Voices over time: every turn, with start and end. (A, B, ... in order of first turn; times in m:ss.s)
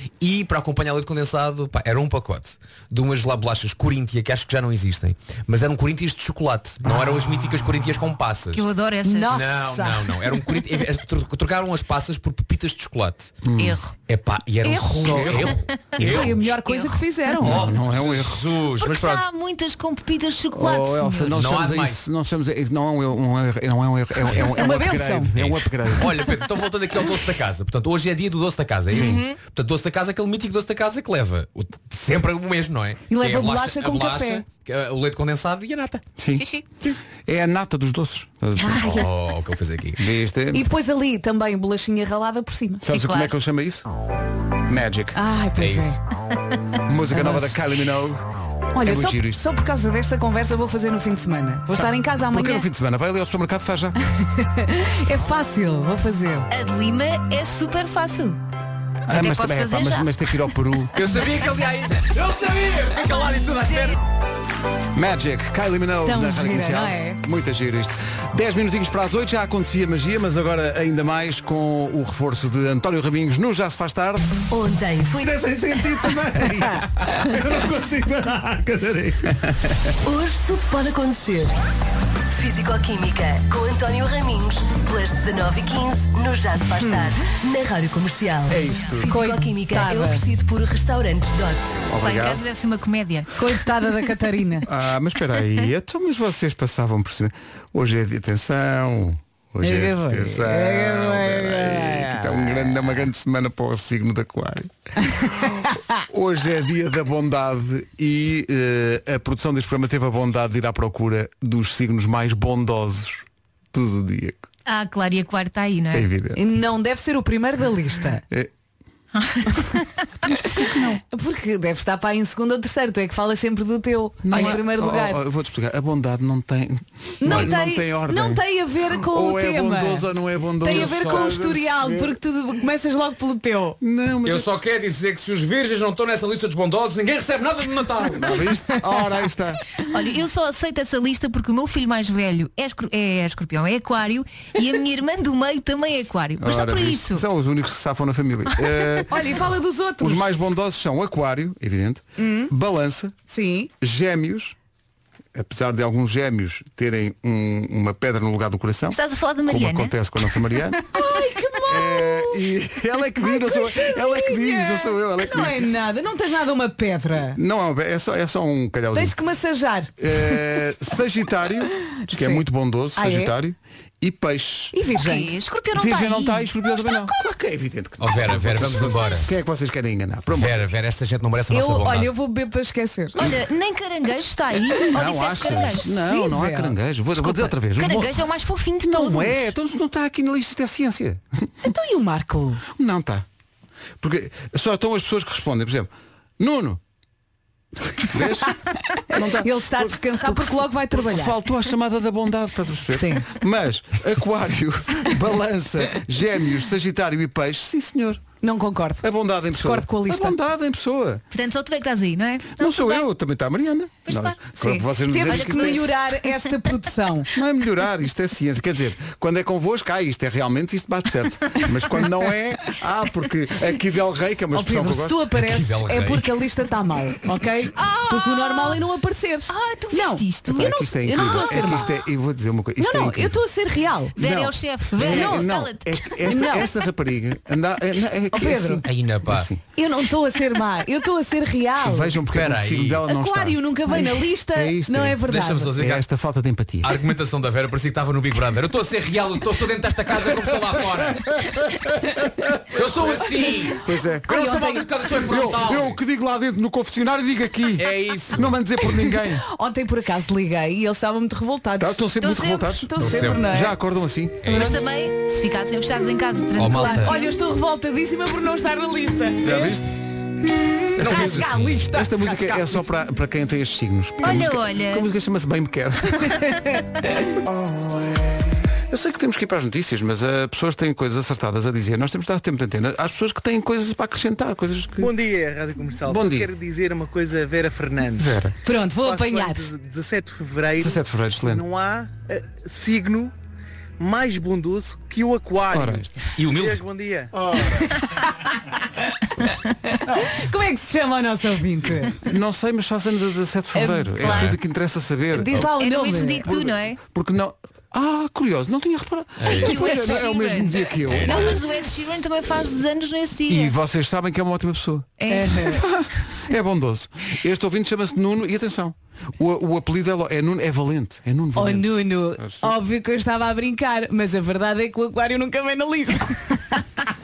0:00.2-0:08.6 A
0:08.5-0:09.5 B
0:09.0-0:10.1 C
0:09.3-0:13.4 A
0:13.4-0:13.8 D
0:13.6-0:13.9 B
0:14.1-0:16.4 A
0:14.6-0:17.6 C
0:15.0-0:16.3 D
0:16.0-0:17.0 B
0:17.4-0:18.5 D
0:17.4-0:19.2 A
0:18.8-0:21.4 B
0:20.5-0:26.3 D
0:21.3-0:22.0 A
0:24.4-0:25.3 C
0:25.3-0:36.0 A
0:28.9-0:29.4 B
0:28.9-0:29.2 D
0:33.1-0:34.4 C
0:36.2-0:36.5 D
0:36.4-0:36.6 B
0:37.3-0:39.0 D
0:38.6-0:39.0 C
0:38.8-0:40.0 A
0:40.0-0:40.6 D
0:40.5-0:42.8 C
0:42.8-0:43.9 D
0:42.9-0:43.3 B
0:44.7-0:45.2 D
0:45.2-0:46.0 C
0:45.6-0:46.0 A
0:46.9-0:48.2 D
0:47.1-0:47.6 C
0:48.7-0:52.7 C
0:48.8-0:49.4 D
0:51.7-0:54.0 D
0:54.4-0:56.5 C
0:56.5-0:58.4 B
0:59.1-1:00.9 D
0:59.1-1:00.1 B
1:00.9-1:04.0 A
1:04.9-1:14.4 D
1:06.0-1:07.2 C
1:14.5-1:16.2 E
1:15.7-1:19.5 D
1:20.0-1:21.7 E
1:22.3-1:31.9 E
1:26.8-1:27.1 C
1:28.5-1:29.2 D
1:29.0-1:30.3 C
1:31.9-1:32.4 D
1:32.0-1:33.3 B
1:33.4-1:34.7 C
1:34.7-1:54.5 D
1:39.6-1:42.6 C
1:45.1-1:46.0 C
1:54.7-1:56.1 B
1:55.9-1:56.5 D
1:56.4-1:58.2 C
1:59.2-1:59.9 B
2:00.3-2:01.0 D
2:01.1-2:05.2 C
2:04.2-2:12.2 D
2:07.2-2:10.1 C
2:10.6-2:13.8 C
2:10.8-2:11.2 A
2:13.8-2:14.5 D
2:14.2-2:18.4 A
2:18.1-2:19.6 D
2:19.9-2:27.2 B
2:26.4-2:29.2 D
2:29.1-2:30.3 C
2:30.0-2:33.2 D
2:32.2-2:32.5 C
2:33.3-2:33.7 C
2:33.8-2:34.6 D
2:35.3-2:40.8 D
2:38.9-2:39.9 B
2:40.9-2:42.4 C
2:41.7-2:45.7 D
2:43.2-2:47.4 C
2:47.4-2:49.2 D
2:48.9-2:50.4 C
2:50.0-2:54.8 D
2:52.1-2:52.4 C
2:53.0-2:53.3 C
2:54.7-2:55.4 C
2:55.0-2:57.1 B
2:55.7-3:00.6 D
2:58.0-2:59.4 A
2:58.8-2:59.3 B
3:00.4-3:02.1 A
3:01.5-3:03.2 C
3:03.2-3:05.9 B
3:04.9-3:08.2 D
3:06.0-3:06.8 C
3:07.2-3:09.5 B
3:08.8-3:11.5 D
3:11.6-3:12.6 C
3:12.7-3:13.3 D
3:14.0-3:16.8 D
3:18.1-3:18.6 D
3:19.1-3:28.2 D
3:19.1-3:21.4 C
3:23.0-3:23.2 C
3:28.4-3:30.4 C
3:29.0-3:31.2 D
3:31.3-3:33.1 B
3:32.6-3:35.9 D
3:34.1-3:34.4 B
3:34.6-3:37.3 C
3:35.2-3:36.3 B
3:37.3-3:45.2 D
3:44.5-3:51.9 C
3:45.3-3:46.3 A
3:47.8-3:48.8 B
3:49.5-3:51.7 B
3:50.5-3:53.4 D
3:52.8-3:54.2 C
3:54.2-3:56.2 B
3:54.2-3:59.6 D
3:55.0-3:55.5 C
3:56.3-3:56.7 C
3:58.3-3:58.8 C
3:58.9-3:59.5 A
3:59.8-4:02.2 C
4:01.8-4:05.2 D
4:02.3-4:03.0 A
4:03.1-4:05.8 C
4:05.3-4:06.0 A
4:05.8-4:07.0 D
4:06.8-4:11.5 A
4:12.7-4:16.0 A
4:13.8-4:14.5 D
4:14.3-4:14.9 C
4:15.2-4:19.4 D
4:17.8-4:18.6 A
4:19.4-4:23.8 C
4:21.8-4:24.5 D
4:22.2-4:22.7 B
4:23.0-4:23.4 A
4:24.4-4:24.8 A
4:24.5-4:24.8 C
4:24.5-4:27.4 B
4:26.6-4:27.2 A
4:26.7-4:29.9 C
4:29.4-4:29.9 D
4:30.4-4:32.8 C
4:31.0-4:31.9 A
4:31.0-4:36.4 D
4:34.2-4:35.1 B
4:38.9-4:45.1 D
4:45.0-4:48.4 F
4:46.0-4:46.5 D
4:48.2-4:48.6 D
4:48.6-4:49.7 C
4:49.0-4:53.3 F
4:50.8-4:51.6 D
4:54.0-4:57.4 F
4:55.7-4:56.1 D
4:56.4-4:56.8 A
4:59.4-5:02.2 C
5:02.2-5:05.7 D
5:03.7-5:04.2 C
5:04.2-5:04.6 B
5:04.3-5:04.6 A
5:05.3-5:06.5 C
5:05.6-5:07.0 B
5:06.4-5:11.6 D
5:09.4-5:09.8 A
5:09.5-5:13.8 B
5:11.1-5:11.5 A
5:13.5-5:22.8 D
5:15.2-5:15.8 B
5:15.3-5:15.8 C
5:21.6-5:26.8 C